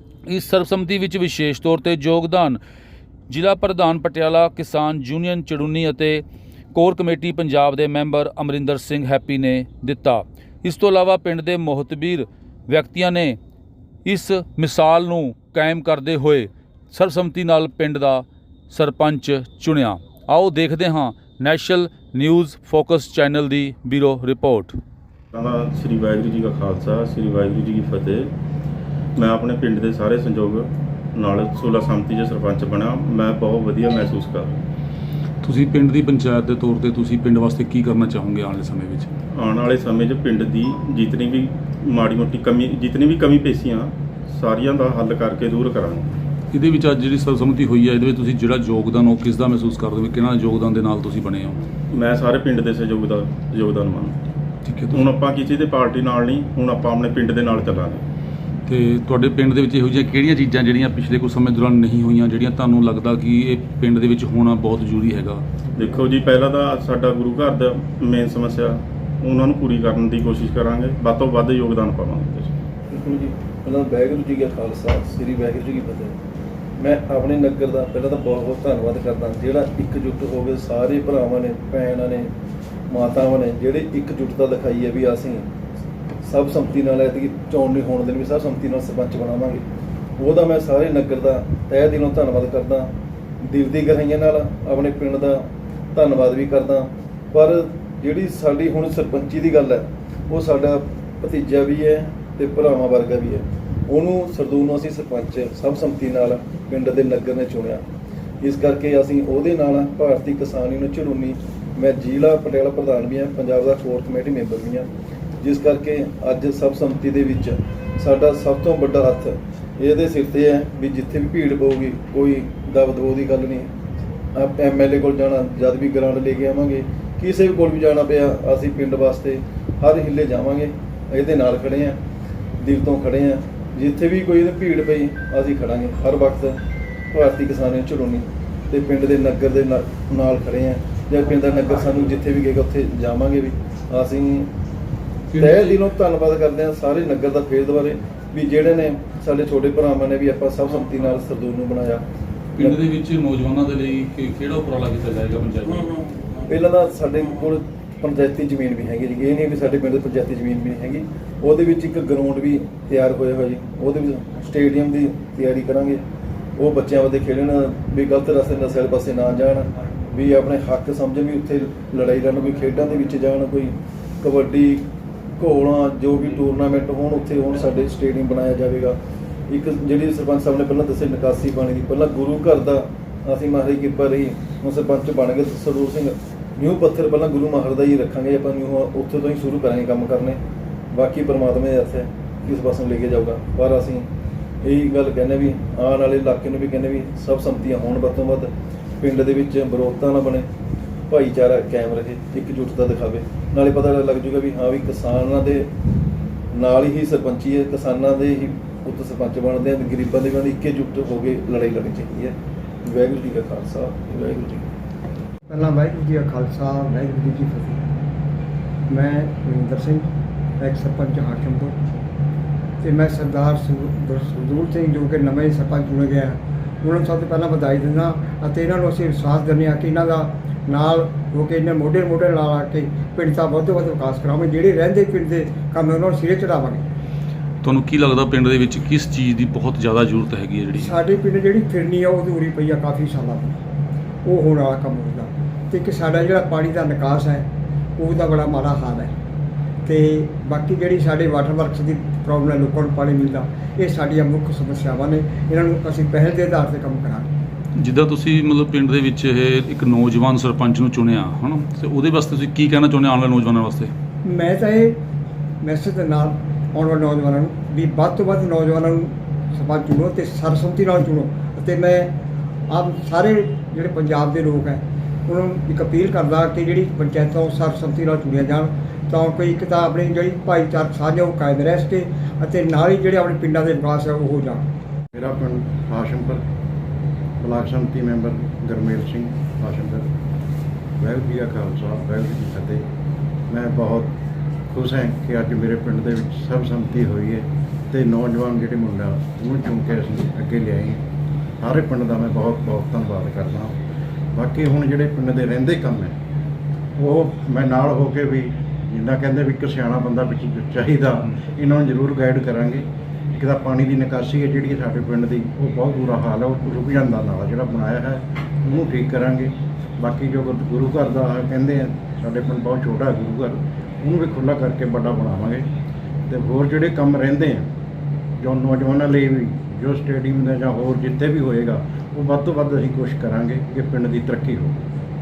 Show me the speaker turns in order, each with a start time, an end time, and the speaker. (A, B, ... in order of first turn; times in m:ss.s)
0:00.3-0:02.6 A
0:03.3-0:13.4 A
0:14.0-0:24.8 A
0:25.3-0:28.3 B
0:29.2-0:34.6 B
0:35.4-0:39.1 A
0:39.3-0:46.2 B
0:46.5-0:51.6 A
0:51.9-0:54.2 B
0:54.6-0:55.0 A
0:54.9-0:58.0 B
0:58.7-1:05.4 A
1:05.7-1:12.5 B
1:12.9-1:16.2 C
1:16.8-1:22.3 C
1:22.9-1:25.5 C
1:26.2-1:29.6 C
1:30.2-1:32.9 C
1:33.4-1:47.8 C
1:48.4-1:54.9 C
1:55.4-2:03.7 C
2:04.3-2:12.0 C
2:12.6-2:16.6 C
2:17.1-2:24.5 C
2:25.3-2:25.8 A
2:25.4-2:32.0 C
2:32.6-2:36.0 A
2:36.4-2:46.0 C
2:46.6-2:54.9 C
2:55.4-2:59.0 C
2:59.5-3:10.4 C
3:10.9-3:14.1 C
3:14.6-3:20.5 C
3:21.1-3:25.7 C
3:26.5-3:34.7 C
3:35.5-3:37.8 D
3:38.9-3:41.8 D
3:42.8-3:56.8 D
3:57.6-4:00.9 A
4:00.7-4:03.6 D
4:04.2-4:09.1 D
4:09.8-4:17.3 D
4:17.8-4:23.9 A
4:24.2-4:25.0 D
4:25.6-4:32.2 D
4:32.7-4:44.6 D
4:45.1-4:46.4 E
4:47.4-4:50.0 E
4:51.0-4:52.8 E
4:53.5-4:54.1 E
4:54.7-5:01.0 E
5:01.6-5:03.7 E
5:04.3-5:06.2 E
5:07.0-5:25.7 E
5:26.3-5:27.7 E
5:28.4-5:34.8 E